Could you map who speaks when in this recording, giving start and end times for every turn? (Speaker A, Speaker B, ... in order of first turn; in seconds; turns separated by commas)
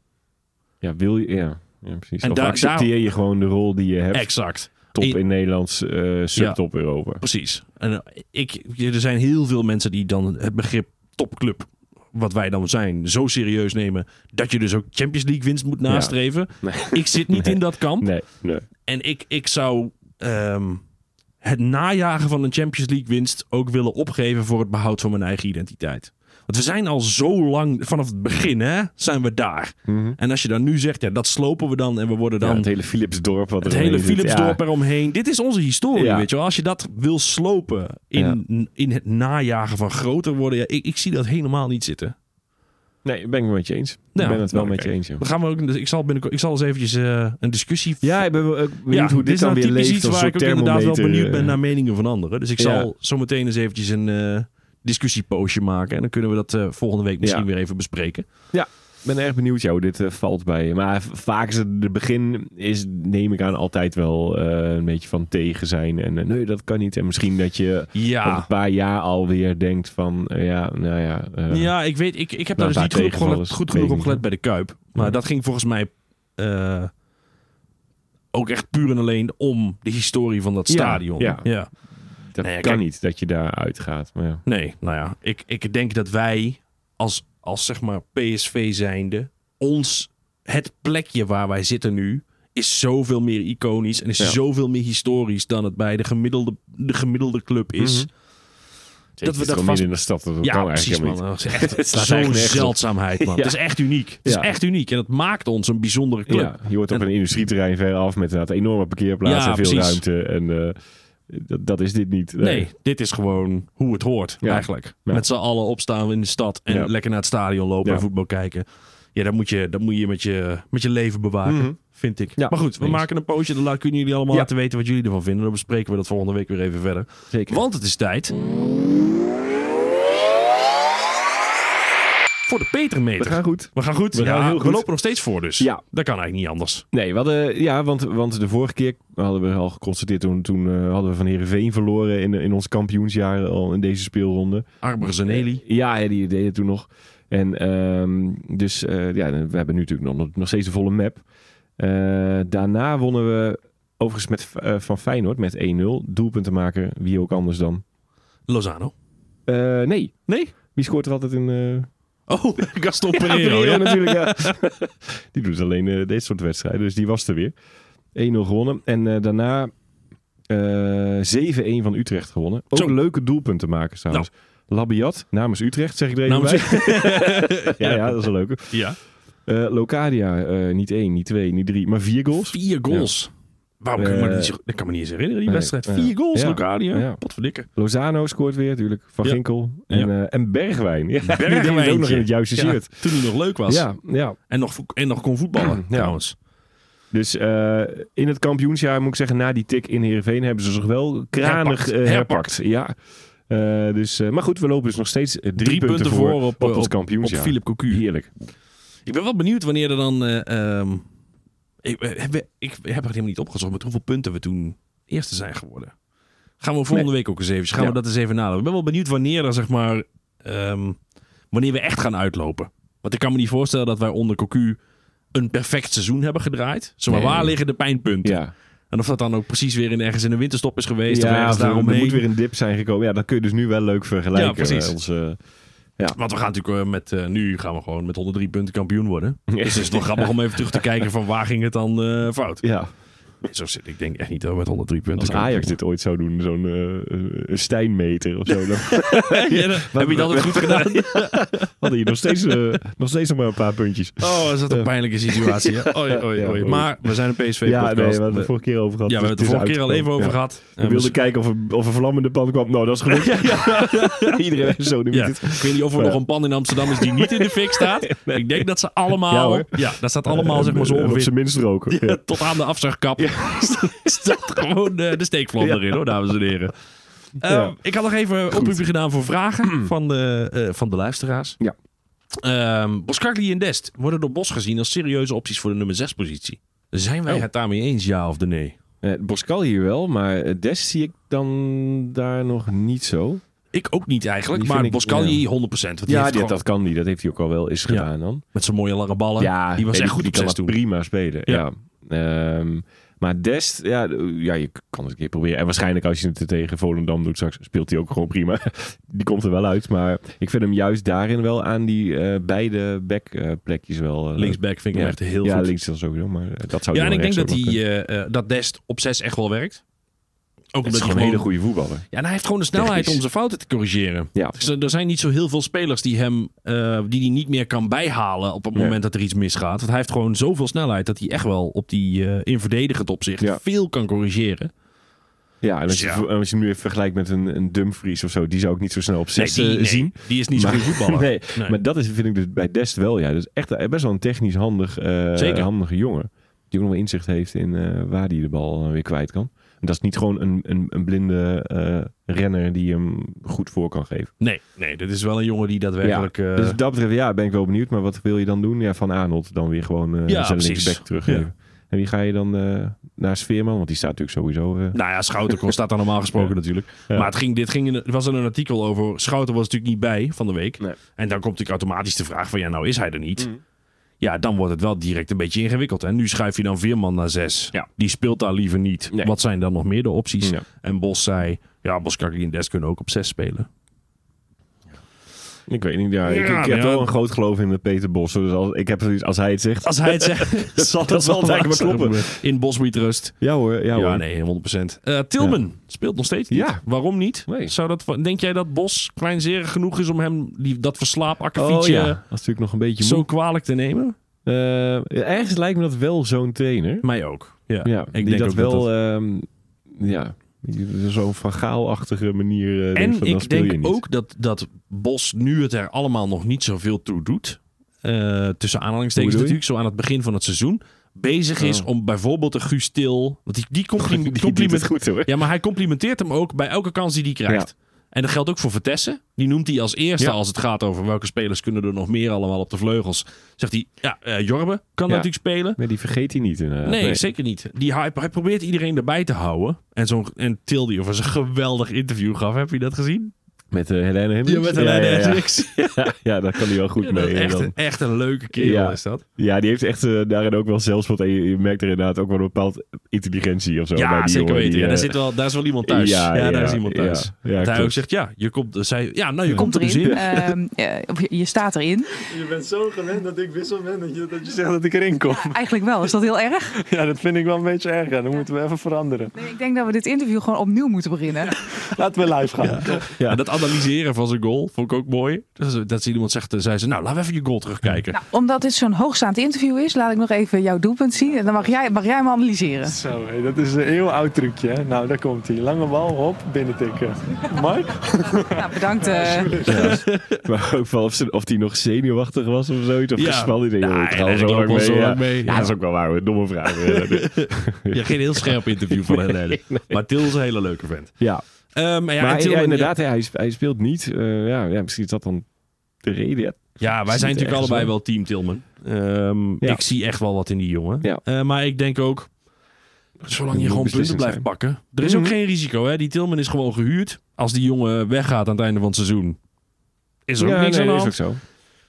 Speaker A: 0.8-7.2, Speaker B: 2.2-2.9, Speaker B: 4.1-5.2, Speaker B: 7.2-18.1, Speaker A: 15.9-18.6, Speaker B: 18.9-20.8, Speaker B: 21.4-32.7, Speaker A: 29.9-30.2, Speaker A: 32.4-34.6, Speaker B: 33.6-42.1, Speaker A: 35.9-36.3, Speaker A: 38.1-38.4, Speaker A: 43.0-45.2, Speaker B: 44.1-48.2, Speaker A: 48.0-51.5, Speaker B: 48.9-58.2, Speaker A: 52.6-52.9, Speaker A: 58.5-71.7, Speaker B: 67.9-68.5, Speaker B: 71.5-76.9, Speaker A: 72.5-74.2, Speaker B: 78.3-81.7, Speaker A: 80.7-81.5, Speaker A: 82.3-84.4, Speaker B: 82.4-82.8, Speaker B: 84.5-98.1, Speaker A: 97.8-98.1, Speaker A: 99.2-103.6, Speaker B: 99.2-107.0, Speaker A: 104.2-104.5, Speaker A: 106.3-110.8, Speaker B: 109.2-110.0, Speaker A: 111.3-112.7, Speaker B: 112.4-128.3, Speaker A: 114.4-115.2, Speaker A: 121.5-121.8, Speaker A: 122.4-123.1, Speaker A: 127.3-127.6, Speaker B: 132.4-136.8, Speaker A: 133.2-134.9, Speaker A: 136.9-144.7, Speaker B: 144.8-145.6, Speaker A: 145.2-151.2, Speaker A: 151.8-157.8, Speaker B: 158.5-158.9, Speaker A: 159.5-161.9, Speaker B: 160.3-160.5, Speaker B: 162.3-164.6, Speaker A: 163.1-167.5, Speaker A: 168.1-169.7, Speaker A: 170.5-178.8, Speaker B: 176.2-179.0, Speaker A: 179.4-183.1, Speaker B: 182.5-183.3, Speaker B: 183.8-187.7, Speaker A: 183.9-184.5, Speaker A: 185.5-194.4, Speaker B: 189.2-190.1, Speaker B: 191.2-193.9, Speaker B: 194.5-196.3, Speaker A: 195.6-196.2, Speaker A: 197.1-202.9, Speaker B: 201.4-202.5, Speaker A: 203.5-208.3, Speaker B: 205.6-208.0, Speaker B: 209.1-211.0, Speaker B: 211.8-215.9, Speaker B: 216.6-221.0, Speaker B: 221.5-224.8, Speaker B: 225.3-232.2, Speaker A: 227.1-227.6, Speaker A: 228.2-228.5, Speaker A: 231.1-235.4, Speaker B: 234.3-235.0, Speaker B: 236.1-242.7, Speaker A: 239.5-240.8, Speaker A: 242.6-242.9, Speaker B: 243.4-245.8, Speaker A: 245.2-257.1, Speaker B: 248.9-252.6, Speaker B: 254.2-258.5, Speaker A: 257.6-266.2, Speaker B: 259.1-261.2, Speaker B: 263.1-264.4, Speaker B: 265.1-271.3, Speaker A: 266.7-272.5, Speaker B: 271.9-276.7, Speaker A: 273.2-274.3, Speaker A: 275.6-276.0, Speaker B: 277.4-281.6, Speaker A: 277.4-277.8, Speaker A: 278.5-278.9, Speaker A: 279.6-279.9, Speaker B: 282.4-288.8, Speaker A: 289.0-293.4, Speaker B: 293.7-296.6, Speaker A: 294.5-295.4, Speaker A: 296.0-298.4, Speaker B: 297.9-300.8, Speaker A: 299.4-317.8, Speaker B: 314.4-315.7, Speaker B: 316.9-319.8, Speaker B: 320.7-321.5, Speaker A: 320.8-322.1, Speaker B: 322.1-334.7, Speaker A: 322.7-323.2, Speaker A: 335.6-354.3, Speaker B: 335.9-336.2, Speaker B: 339.4-341.8, Speaker B: 345.4-345.7, Speaker B: 354.4-356.8, Speaker A: 356.0-365.7, Speaker B: 360.3-361.5, Speaker B: 364.9-373.5, Speaker A: 367.1-367.3, Speaker B: 374.2-383.7, Speaker A: 385.7-392.4, Speaker B: 386.2-387.1, Speaker B: 389.8-393.4, Speaker A: 393.4-394.2, Speaker B: 393.9-402.2, Speaker A: 396.5-396.8, Speaker A: 397.4-397.7, Speaker A: 401.6-403.3, Speaker B: 403.0-404.1, Speaker A: 404.4-407.1, Speaker B: 407.0-408.9, Speaker A: 407.8-414.0, Speaker B: 412.9-435.8, Speaker A: 419.1-419.6, Speaker A: 421.6-421.9, Speaker A: 424.0-425.3, Speaker A: 435.1-437.2, Speaker B: 436.8-443.3, Speaker A: 443.7-447.8, Speaker B: 444.4-446.1, Speaker B: 447.0-449.2, Speaker A: 448.5-455.2, Speaker B: 453.9-460.4, Speaker A: 455.8-458.0, Speaker A: 459.5-460.4, Speaker C: 459.5-462.1, Speaker D: 462.3-466.1, Speaker C: 465.4-466.7, Speaker D: 466.7-469.4, Speaker C: 469.4-471.5, Speaker D: 471.6-473.1, Speaker B: 472.6-478.2, Speaker A: 473.2-473.4, Speaker C: 478.1-482.9, Speaker D: 482.8-489.9, Speaker C: 488.6-489.7, Speaker A: 489.6-500.1, Speaker B: 489.7-490.4, Speaker B: 493.1-495.7, Speaker B: 496.7-501.1, Speaker B: 501.7-502.9, Speaker A: 502.2-505.4, Speaker A: 506.0-507.9, Speaker B: 506.8-512.3, Speaker A: 513.2-514.5, Speaker B: 513.2-519.4, Speaker A: 515.0-515.4, Speaker B: 520.3-521.2, Speaker A: 520.4-521.4